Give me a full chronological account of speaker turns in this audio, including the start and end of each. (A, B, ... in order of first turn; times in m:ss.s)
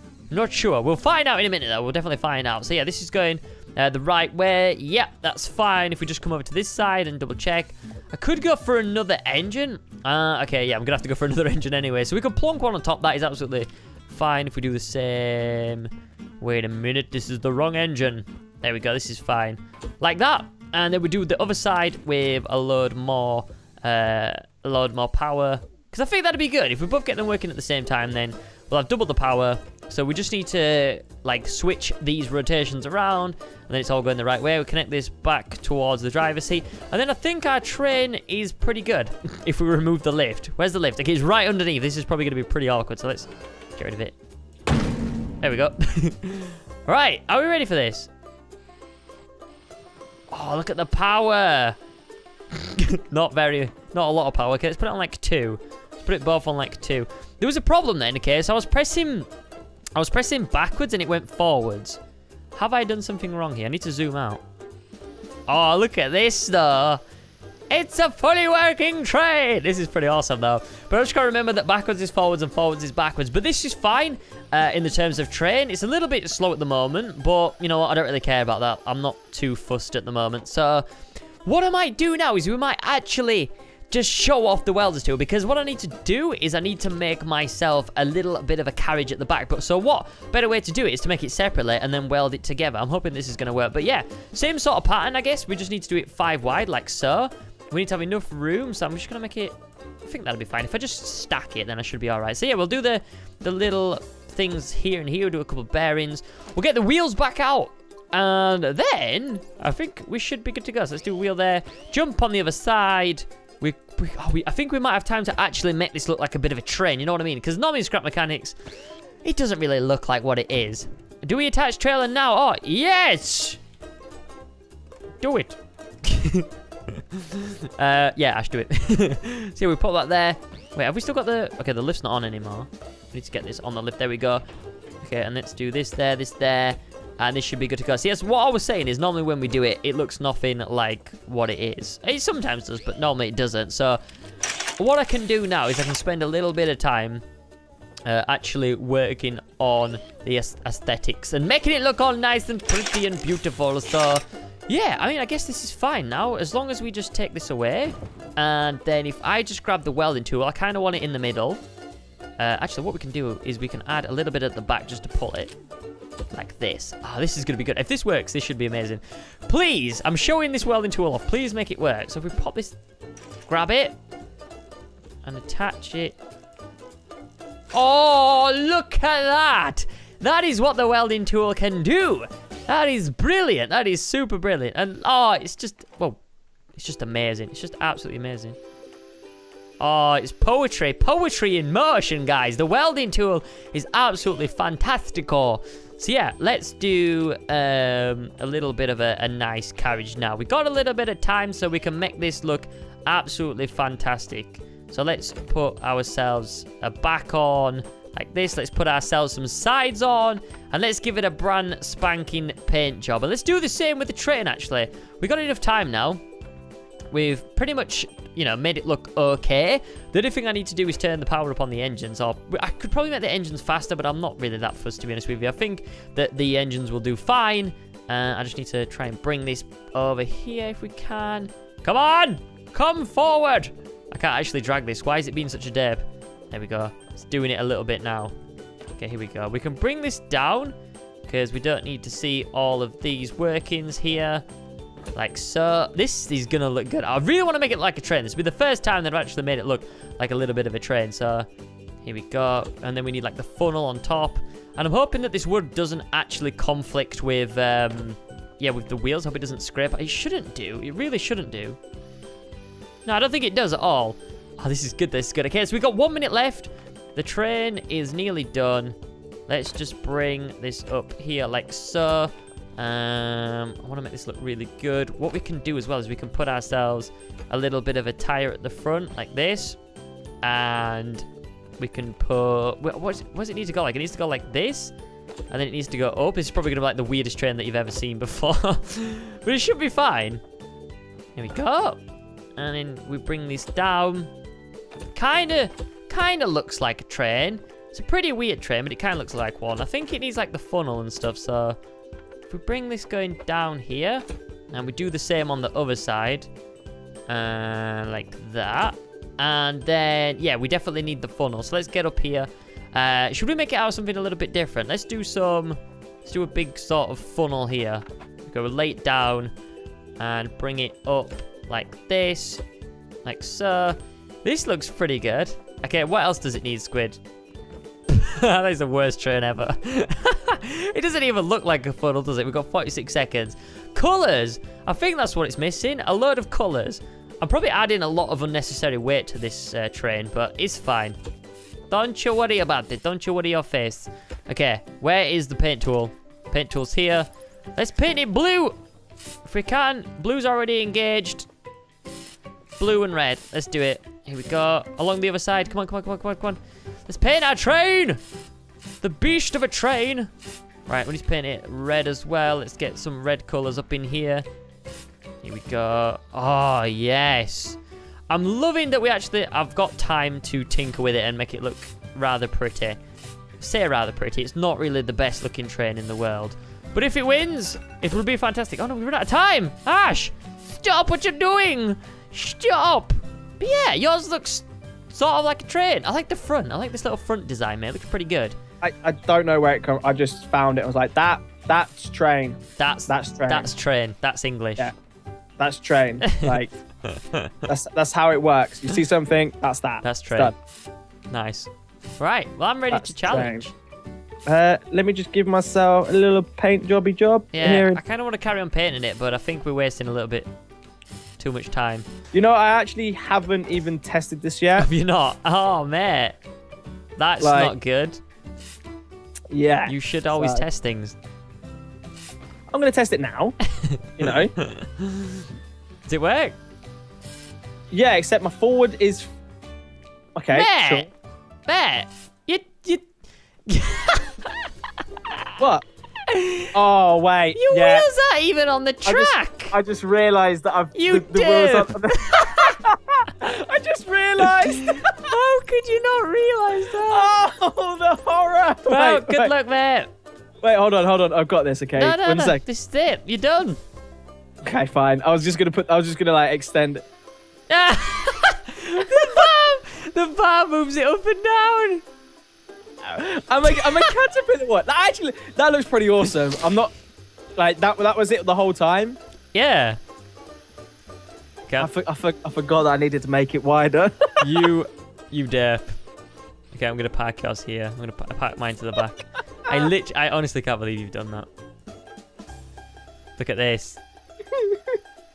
0:00.3-0:44.2 A
0:45.4-0:48.1 A
0:50.3-0:51.8 A
0:52.5-0:59.3 A
1:00.0-1:02.0 A
1:02.6-1:04.4 A
1:05.5-1:07.0 A
1:07.7-1:20.8 A
1:21.4-1:39.5 A
1:40.0-1:58.6 A
1:59.2-2:03.6 A
2:05.2-2:14.4 A
2:15.0-2:24.0 A
2:24.8-2:27.2 A
2:28.0-2:41.6 A
2:42.4-2:45.5 A
2:46.3-2:52.8 A
2:53.5-2:54.0 A
2:55.2-2:56.2 A
2:57.7-3:06.2 A
3:06.8-3:08.6 A
3:09.8-3:36.2 A
3:37.1-3:58.3 A
3:58.9-4:00.8 A
4:01.3-4:04.4 A
4:05.2-4:11.5 A
4:12.0-4:21.8 A
4:23.1-4:29.0 A
4:29.5-4:39.8 A
4:40.4-4:41.3 A
4:41.8-4:44.9 A
4:45.5-4:50.4 A
4:51.4-4:52.0 A
4:52.6-4:54.3 A
4:55.1-5:01.8 A
5:02.5-5:06.5 A
5:07.3-5:19.5 A
5:20.2-5:22.6 A
5:23.2-5:27.2 A
5:28.1-5:41.2 A
5:41.9-5:48.8 A
5:49.4-5:51.5 A
5:52.8-5:58.2 A
5:59.0-6:00.3 A
6:00.9-6:04.4 A
6:05.4-6:07.8 A
6:08.3-6:13.0 A
6:13.6-6:28.6 A
6:28.8-6:33.7 B
6:32.8-6:34.9 A
6:35.6-6:36.7 B
6:36.2-6:37.5 A
6:37.7-6:40.5 B
6:40.0-6:40.5 A
6:41.3-6:43.7 A
6:42.9-6:43.6 B
6:44.5-6:48.0 B
6:47.5-6:50.5 A
6:51.4-6:52.0 A
6:52.3-6:54.9 B
6:54.8-6:56.4 A
6:57.2-6:58.2 A
6:57.4-6:57.7 B
6:59.5-7:00.7 B
6:59.9-7:01.2 A
7:02.7-7:03.6 B
7:03.7-7:05.5 A
7:04.2-7:04.5 B
7:06.1-7:06.6 A
7:07.9-7:09.3 B
7:10.4-7:11.1 B
7:10.5-7:11.1 A
7:11.7-7:13.0 A
7:13.7-7:14.7 A
7:15.6-7:15.8 B
7:16.3-7:16.7 A
7:16.7-7:18.1 B
7:17.6-7:19.8 A
7:19.1-7:25.1 B
7:21.0-7:22.8 A
7:24.4-7:27.4 A
7:27.0-7:29.5 B
7:28.9-7:30.1 A
7:30.6-7:32.6 B
7:32.0-7:33.8 A
7:34.6-7:37.0 B
7:37.7-7:42.0 A
7:43.0-7:46.9 B
7:43.7-7:44.1 A
7:47.6-7:49.2 B
7:49.5-7:50.0 A
7:51.8-7:54.7 B
7:54.4-7:56.0 A
7:56.7-8:01.5 A
8:03.4-8:04.0 A
8:04.6-8:04.9 B